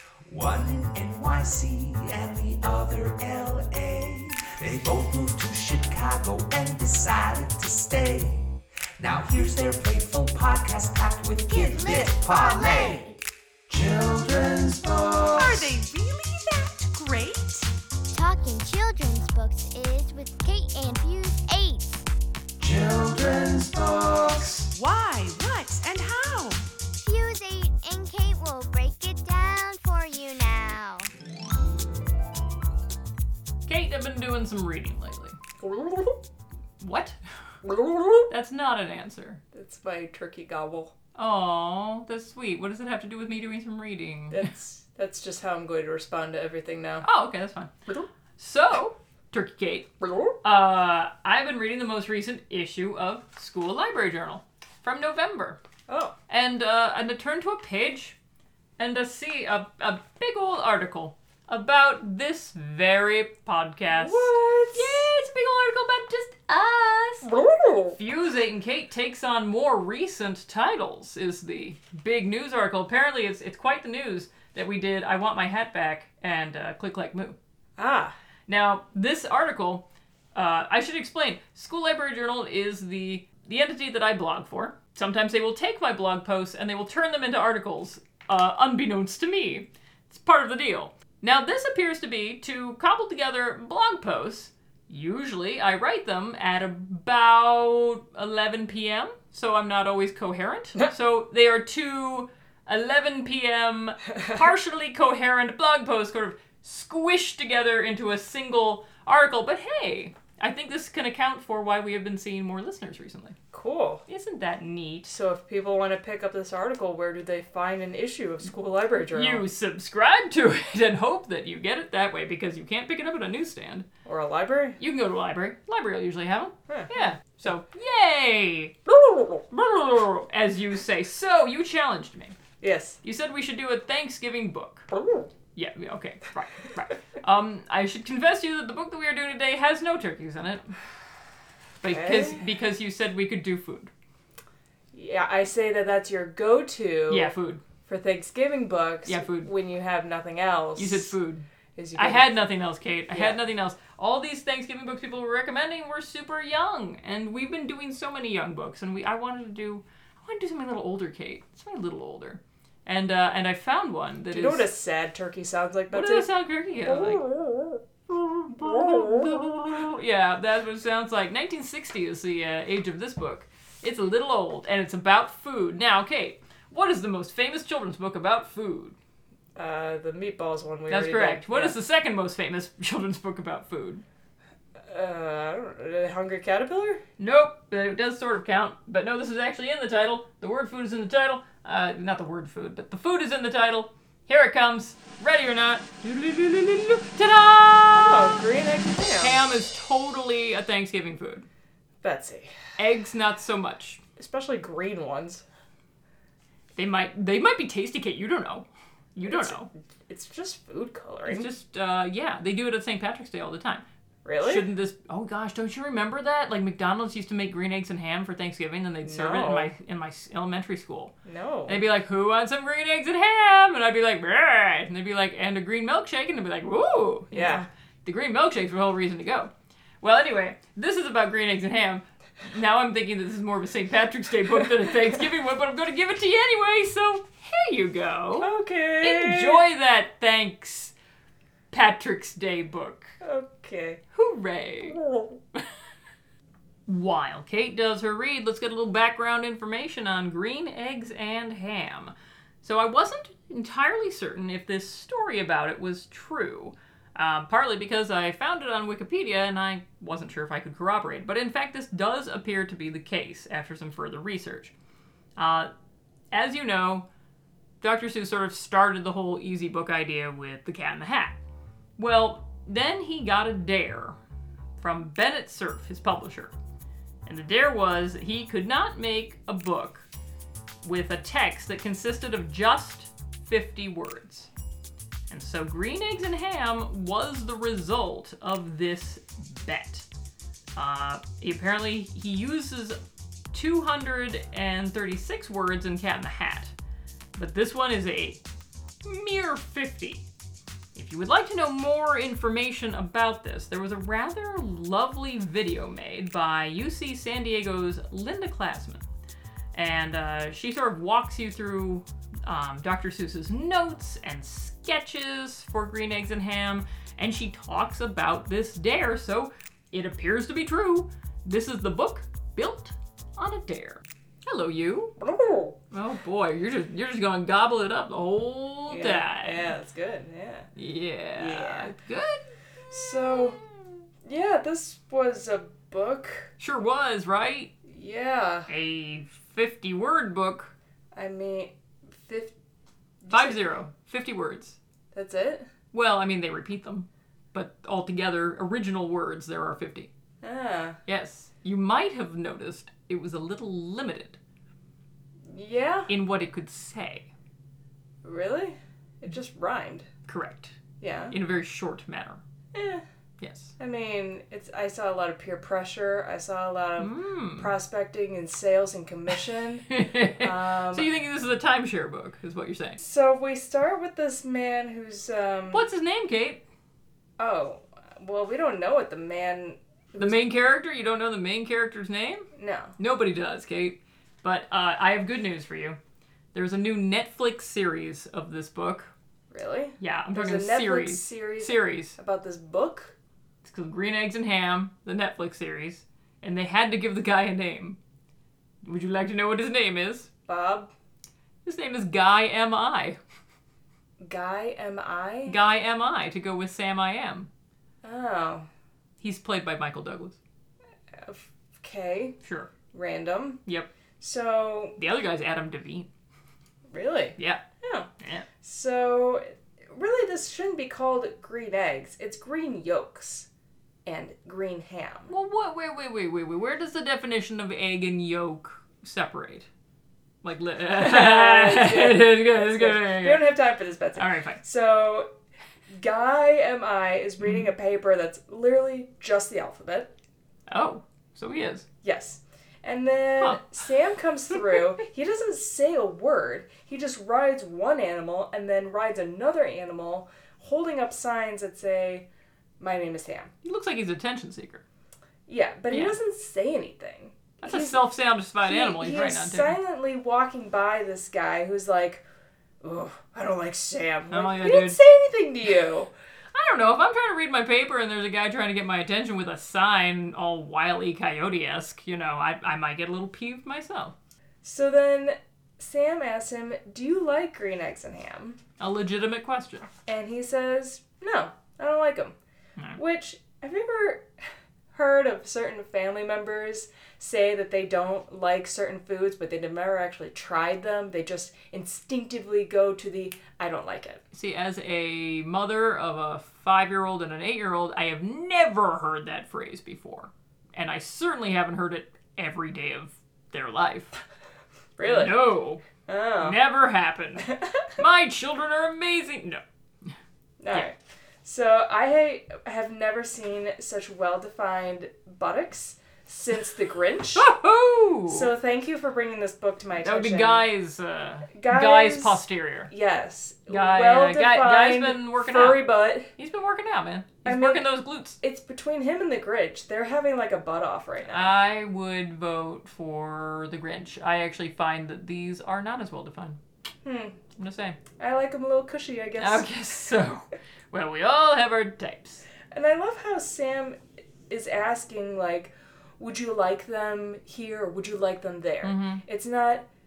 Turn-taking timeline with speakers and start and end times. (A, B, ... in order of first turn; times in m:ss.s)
0:00.3-0:13.1 A
0:11.4-0:13.2 B
0:13.7-0:15.8 A
0:15.3-0:17.7 C
0:18.1-0:22.0 B
0:22.6-0:24.7 A
0:24.7-0:26.6 C
0:27.0-0:31.1 B
0:33.6-0:35.4 D
0:35.6-0:36.2 E
0:36.8-0:37.2 D
0:37.6-0:38.3 E
0:38.3-0:39.4 D
0:39.5-0:40.9 E
0:41.2-0:44.5 D
0:44.3-0:47.0 E
0:47.0-0:47.8 D
0:48.4-0:49.9 D
0:50.0-0:50.4 E
0:50.4-0:55.6 D
0:55.9-0:56.1 E
0:56.3-0:58.2 D
0:58.8-1:07.3 D
1:03.9-1:05.1 E
1:07.2-1:08.0 E
1:07.9-1:17.4 D
1:17.8-1:18.1 E
1:18.5-1:53.4 D
1:53.5-1:54.0 E
1:54.1-1:55.1 D
1:55.1-1:59.4 E
1:59.1-2:03.9 D
2:04.0-2:04.8 E
2:04.8-2:08.8 D
2:06.7-2:07.1 E
2:08.8-2:09.4 E
2:09.5-2:12.4 D
2:12.6-2:13.0 E
2:13.0-2:14.9 D
2:14.9-2:15.3 E
2:15.5-2:20.8 D
2:21.8-2:23.9 D
2:21.9-2:22.4 E
2:24.9-2:27.3 E
2:27.1-2:27.6 D
2:27.8-2:31.1 E
2:29.0-2:29.5 D
2:30.8-2:44.7 D
2:31.8-2:32.3 E
2:33.1-2:33.4 E
2:44.3-2:46.3 E
2:45.9-2:47.3 D
2:46.8-2:47.8 E
2:48.1-2:59.0 D
2:48.6-2:49.4 E
2:59.6-3:01.8 E
3:00.9-3:04.0 D
3:04.8-3:07.0 E
3:07.2-3:18.4 D
3:17.9-3:19.4 E
3:19.2-3:21.4 D
3:22.0-3:22.5 E
3:22.8-3:24.0 D
3:24.2-3:25.4 E
3:26.7-3:29.7 D
3:29.2-3:31.5 E
3:31.2-3:33.8 D
3:34.2-3:34.7 E
3:34.4-3:41.1 D
3:39.0-3:39.7 E
3:41.2-3:41.8 E
3:41.7-4:00.9 D
3:47.3-3:47.7 E
3:58.4-3:59.6 E
4:01.7-4:03.1 D
4:03.2-4:04.0 E
4:04.1-4:05.0 D
4:04.8-4:05.4 E
4:06.9-4:24.7 D
4:25.4-4:25.7 D
4:26.3-4:27.1 D
4:27.8-4:31.4 D
4:32.0-4:34.2 D
4:34.8-4:36.5 D
4:37.2-4:40.1 D
4:40.8-4:44.5 D
4:45.3-4:50.1 D
4:50.8-4:53.0 D
4:53.5-4:56.7 D
4:57.4-4:58.4 D
4:59.0-5:00.2 D
5:00.9-5:09.0 D
5:09.7-5:25.1 D
5:25.2-5:25.8 E
5:25.9-5:29.7 D
5:28.9-5:30.7 E
5:30.8-5:33.7 D
5:31.4-5:31.9 E
5:32.9-5:33.6 E
5:34.2-5:36.5 E
5:36.6-5:37.7 D
5:37.9-5:38.7 E
5:38.7-5:40.7 D
5:41.1-5:42.5 E
5:43.2-5:43.6 E
5:43.3-5:44.8 D
5:45.1-5:45.7 E
5:45.9-5:50.1 D
5:50.4-5:51.0 E
5:51.0-5:54.4 D
5:55.5-5:56.1 E
5:56.1-5:57.3 D
5:58.2-6:00.1 E
6:00.3-6:00.8 D
6:01.0-6:01.3 E
6:01.3-6:02.4 D
6:02.7-6:03.0 E
6:03.4-6:03.7 D
6:03.8-6:11.1 E
6:07.0-6:07.7 D
6:09.9-6:13.0 D
6:13.0-6:15.8 E
6:15.7-6:16.6 D
6:17.4-6:20.5 E
6:20.2-6:22.5 D
6:22.5-6:23.0 E
6:23.0-6:26.0 D
6:26.5-6:29.1 D
6:29.5-6:33.1 E
6:30.0-6:32.2 D
6:33.6-6:38.0 D
6:38.8-6:40.3 D
6:40.5-6:40.9 E
6:41.6-6:43.2 D
6:44.2-6:45.6 E
6:45.5-6:47.5 D
6:48.0-6:48.7 E
6:49.2-6:50.4 D
6:51.1-6:52.4 E
6:52.4-6:52.7 D
6:52.9-6:53.6 E
6:54.2-6:55.0 E
6:55.0-6:56.1 D
6:56.9-6:58.1 E
6:57.4-6:57.6 D
6:58.2-6:58.5 D
6:58.6-7:03.5 E
7:04.0-7:05.3 E
7:05.3-7:09.7 D
7:10.4-7:13.6 D
7:11.0-7:15.3 E
7:14.2-7:14.6 D
7:15.9-7:20.1 E
7:17.4-7:17.7 D
7:20.7-7:21.8 D
7:22.0-7:32.3 E
7:32.8-7:33.5 E
7:33.6-7:34.8 D
7:35.5-7:38.0 E
7:35.9-7:36.2 D
7:37.6-7:39.8 D
7:38.6-7:42.2 E
7:42.8-7:46.1 E
7:44.3-7:45.0 D
7:46.5-7:54.1 D
7:54.6-7:58.6 E
7:58.8-7:59.9 D
8:00.1-8:02.3 E
8:03.0-8:04.3 E
8:04.9-8:14.2 E
8:14.3-8:24.2 D
8:25.0-8:25.4 E
8:25.0-8:25.8 D
8:26.1-8:26.6 E
8:26.4-8:29.6 D
8:27.4-8:27.8 E
8:30.6-8:37.5 E
8:37.3-8:38.5 D
8:38.3-8:40.7 E
8:40.0-8:42.9 D
8:41.5-8:46.3 E
8:43.7-8:48.4 D
8:47.4-8:51.5 E
8:51.3-8:56.6 D
8:57.0-8:57.4 E
8:57.6-8:58.0 D
8:58.2-8:59.8 E
8:59.4-9:02.4 D
9:02.7-9:09.9 E
9:08.8-9:09.2 D